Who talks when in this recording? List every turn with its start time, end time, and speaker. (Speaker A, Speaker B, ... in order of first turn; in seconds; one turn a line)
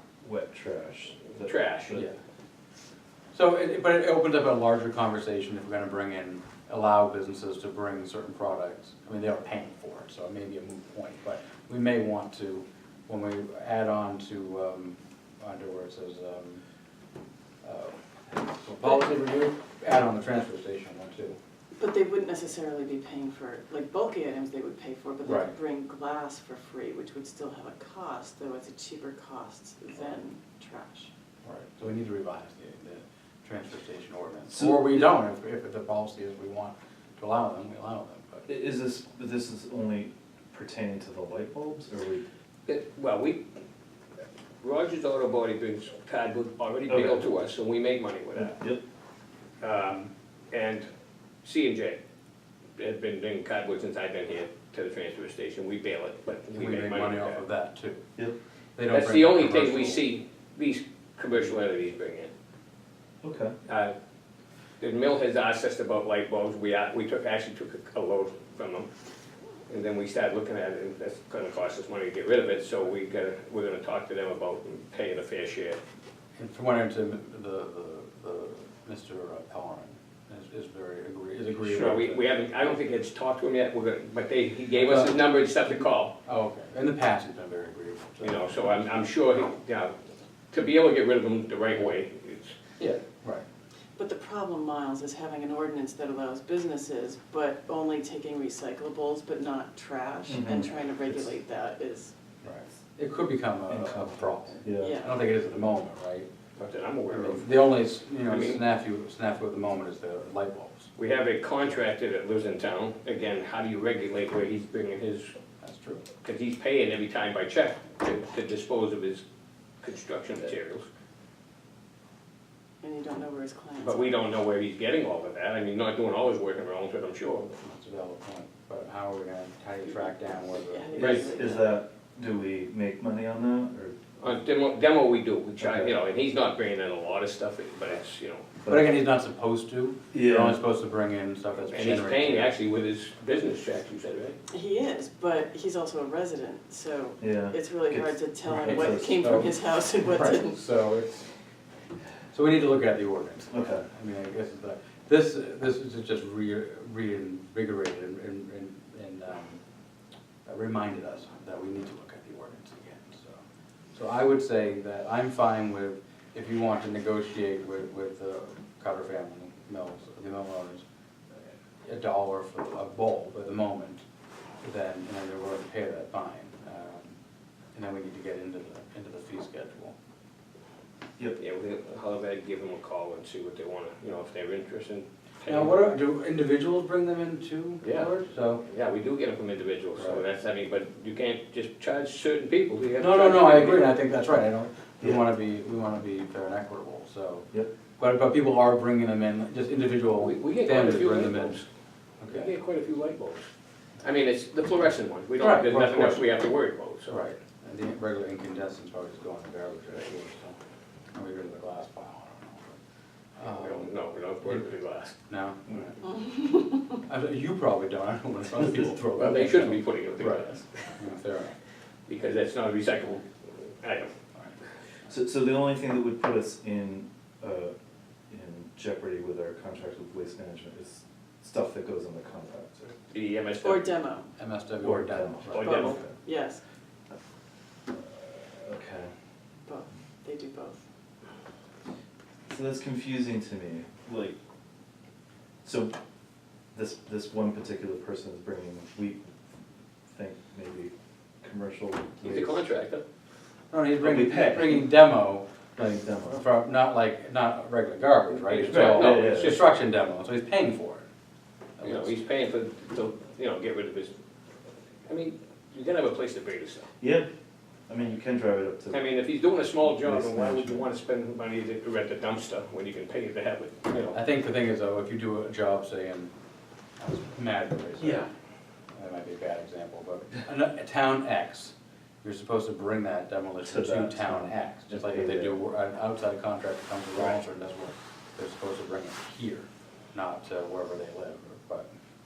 Speaker A: 0.2-2.0
Speaker B: 1.4-2.0
Speaker C: 3.3-16.6
Speaker C: 17.6-21.4
Speaker D: 21.8-31.1
Speaker C: 25.2-25.5
Speaker C: 31.4-38.5
Speaker A: 34.5-35.1
Speaker A: 38.5-42.2
Speaker B: 42.6-43.4
Speaker B: 44.6-48.6
Speaker A: 46.9-47.2
Speaker A: 48.4-48.8
Speaker B: 49.6-50.9
Speaker B: 51.4-52.0
Speaker B: 52.8-57.4
Speaker C: 56.5-58.0
Speaker C: 58.8-60.0
Speaker B: 58.9-62.3
Speaker A: 63.2-63.5
Speaker B: 63.6-63.9
Speaker B: 64.8-68.9
Speaker B: 69.7-75.8
Speaker C: 76.3-82.3
Speaker B: 81.7-86.1
Speaker C: 84.8-85.2
Speaker C: 86.2-89.0
Speaker B: 88.2-89.9
Speaker B: 90.5-92.5
Speaker C: 92.8-93.4
Speaker D: 94.0-102.1
Speaker A: 100.3-101.2
Speaker C: 102.4-106.3
Speaker A: 103.7-105.0
Speaker D: 104.7-105.1
Speaker B: 106.6-107.5
Speaker C: 107.1-110.9
Speaker B: 108.2-108.6
Speaker B: 111.0-115.3
Speaker C: 115.6-116.0
Speaker B: 116.2-119.2
Speaker B: 119.8-120.9
Speaker D: 122.8-124.2
Speaker B: 123.8-127.6
Speaker C: 127.6-131.3
Speaker D: 130.6-131.8
Speaker A: 130.9-133.9
Speaker B: 134.2-138.5
Speaker C: 135.6-136.0
Speaker A: 138.6-138.9
Speaker C: 138.7-142.5
Speaker A: 140.1-140.6
Speaker B: 141.7-144.4
Speaker D: 144.5-150.6
Speaker A: 147.2-149.3
Speaker C: 148.5-151.3
Speaker C: 152.3-159.6
Speaker A: 153.5-153.8
Speaker C: 160.4-163.4
Speaker C: 163.9-170.8
Speaker C: 171.3-174.0
Speaker C: 174.6-177.1
Speaker C: 177.7-179.9
Speaker B: 181.4-185.8
Speaker C: 185.5-188.6
Speaker B: 187.8-193.9
Speaker C: 193.0-197.5
Speaker C: 198.0-201.6
Speaker B: 200.2-201.7
Speaker C: 202.2-202.5
Speaker B: 202.3-203.5
Speaker B: 204.0-207.3
Speaker C: 205.4-206.3
Speaker C: 207.1-210.6
Speaker C: 211.1-212.7
Speaker C: 213.4-213.9
Speaker B: 213.4-215.1
Speaker C: 215.3-216.1
Speaker D: 216.0-216.8
Speaker C: 217.1-221.5
Speaker B: 219.1-220.6
Speaker B: 222.1-224.1
Speaker A: 225.1-227.7
Speaker A: 228.3-232.9
Speaker B: 233.1-233.9
Speaker D: 233.6-234.3
Speaker C: 234.4-235.8
Speaker A: 234.8-236.1
Speaker B: 235.5-236.0
Speaker D: 235.6-236.6
Speaker A: 237.9-239.1
Speaker D: 239.7-240.8
Speaker A: 242.5-244.3
Speaker A: 245.6-245.9
Speaker A: 246.7-249.3
Speaker A: 250.1-252.6
Speaker B: 252.2-253.0
Speaker C: 253.7-261.0
Speaker A: 254.0-254.9
Speaker A: 255.8-256.4
Speaker B: 258.3-259.8
Speaker A: 258.7-259.6
Speaker C: 261.8-262.1
Speaker B: 261.8-264.1
Speaker B: 265.1-266.9
Speaker A: 267.0-267.3
Speaker A: 267.9-269.1
Speaker B: 268.9-274.2
Speaker A: 269.8-270.9
Speaker C: 274.1-276.3
Speaker C: 277.0-278.3
Speaker A: 278.0-278.3
Speaker C: 278.9-291.9
Speaker A: 283.6-285.6